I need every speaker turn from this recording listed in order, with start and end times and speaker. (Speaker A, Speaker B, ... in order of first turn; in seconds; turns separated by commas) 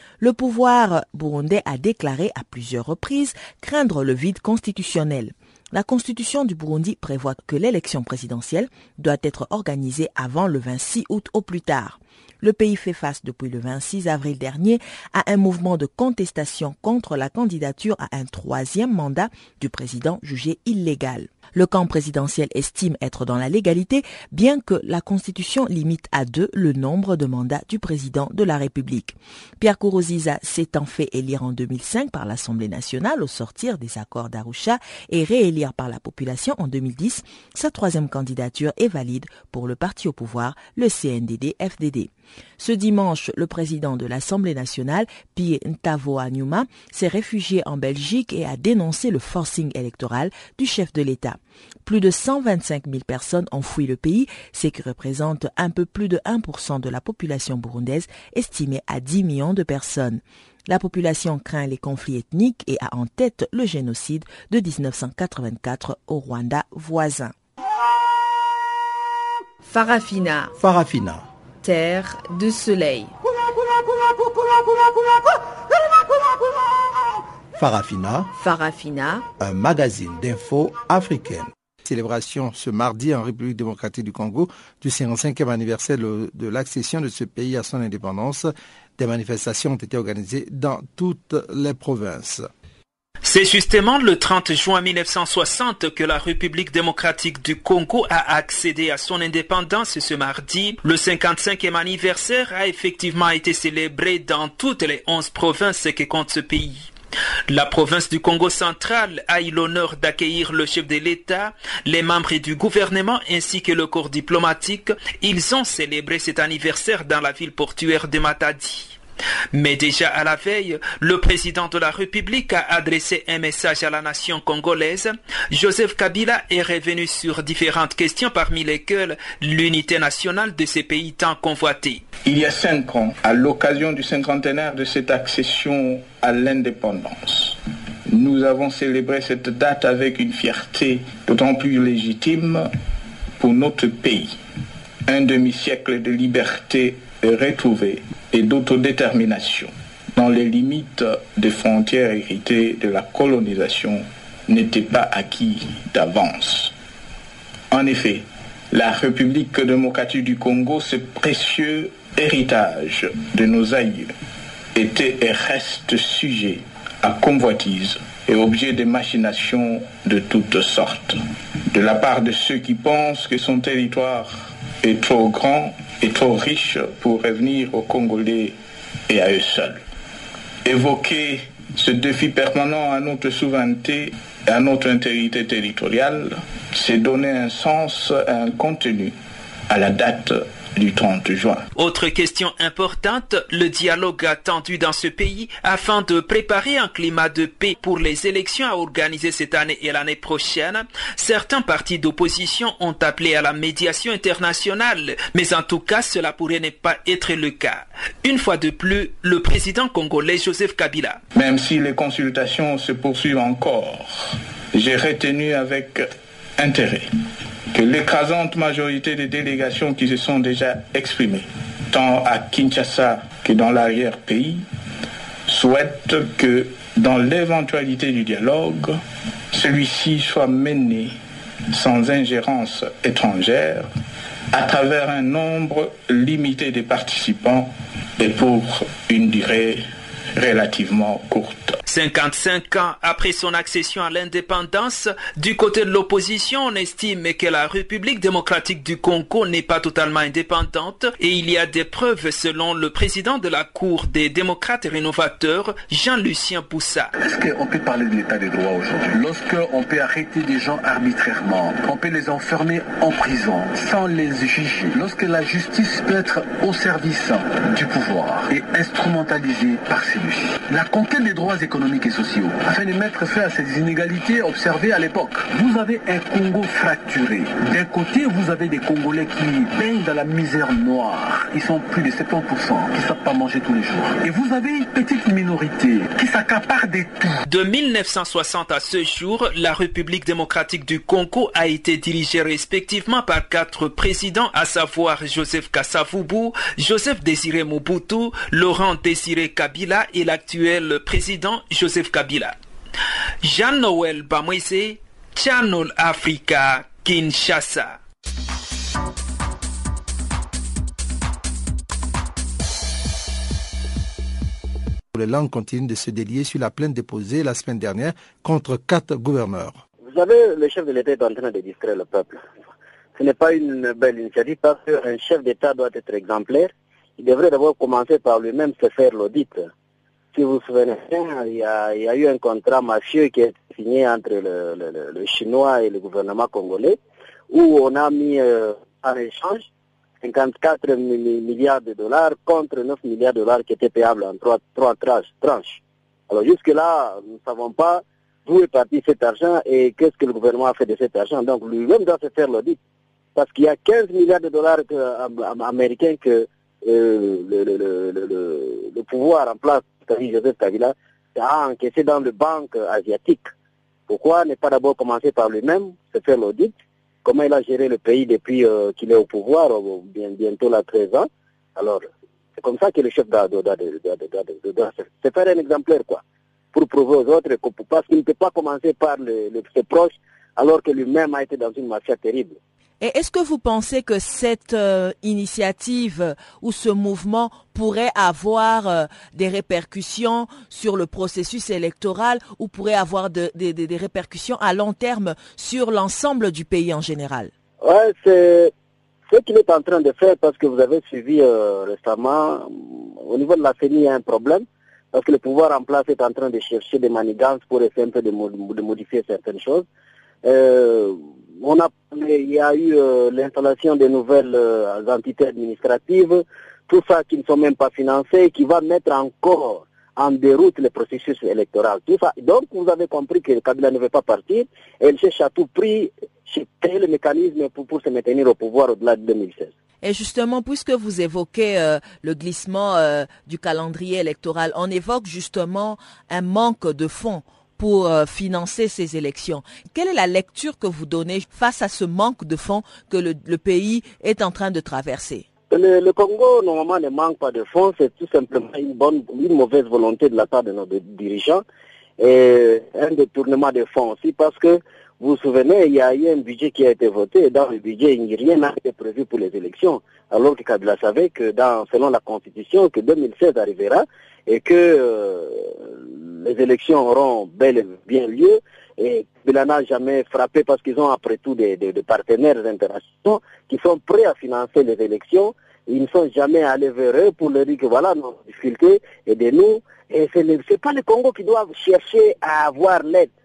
Speaker A: 0.2-67.3, Speaker B: 69.7-70.5, Speaker C: 70.6-71.2, Speaker B: 71.6-73.1, Speaker C: 77.5-78.3, Speaker B: 78.3-79.2, Speaker C: 79.4-92.5, Speaker D: 93.2-106.9, Speaker D: 107.5-119.0, Speaker D: 119.5-132.0, Speaker E: 132.2-142.7, Speaker E: 143.4-144.4, Speaker E: 145.1-156.7, Speaker E: 157.7-164.1, Speaker E: 164.7-171.2, Speaker E: 171.7-178.5, Speaker E: 179.1-179.8, Speaker E: 180.6-189.1, Speaker E: 189.7-191.7, Speaker D: 191.7-211.2, Speaker E: 211.3-217.1, Speaker E: 217.7-224.6, Speaker E: 225.5-229.0, Speaker E: 229.5-231.2, Speaker E: 231.7-233.9, Speaker E: 234.5-241.8, Speaker D: 241.8-257.1, Speaker F: 257.1-287.4, Speaker D: 287.4-302.6, Speaker D: 303.4-308.0, Speaker C: 315.1-319.8, Speaker G: 320.1-322.4, Speaker G: 323.1-329.7, Speaker G: 330.3-337.0, Speaker G: 337.5-339.7, Speaker G: 340.2-352.8, Speaker G: 353.3-363.5, Speaker G: 364.1-372.1, Speaker G: 372.6-376.2, Speaker G: 376.7-382.6, Speaker A: 383.0-397.5, Speaker G: 397.8-398.7, Speaker G: 399.3-409.9, Speaker G: 410.4-429.7, Speaker A: 430.0-445.4, Speaker G: 445.7-451.6, Speaker G: 452.2-483.3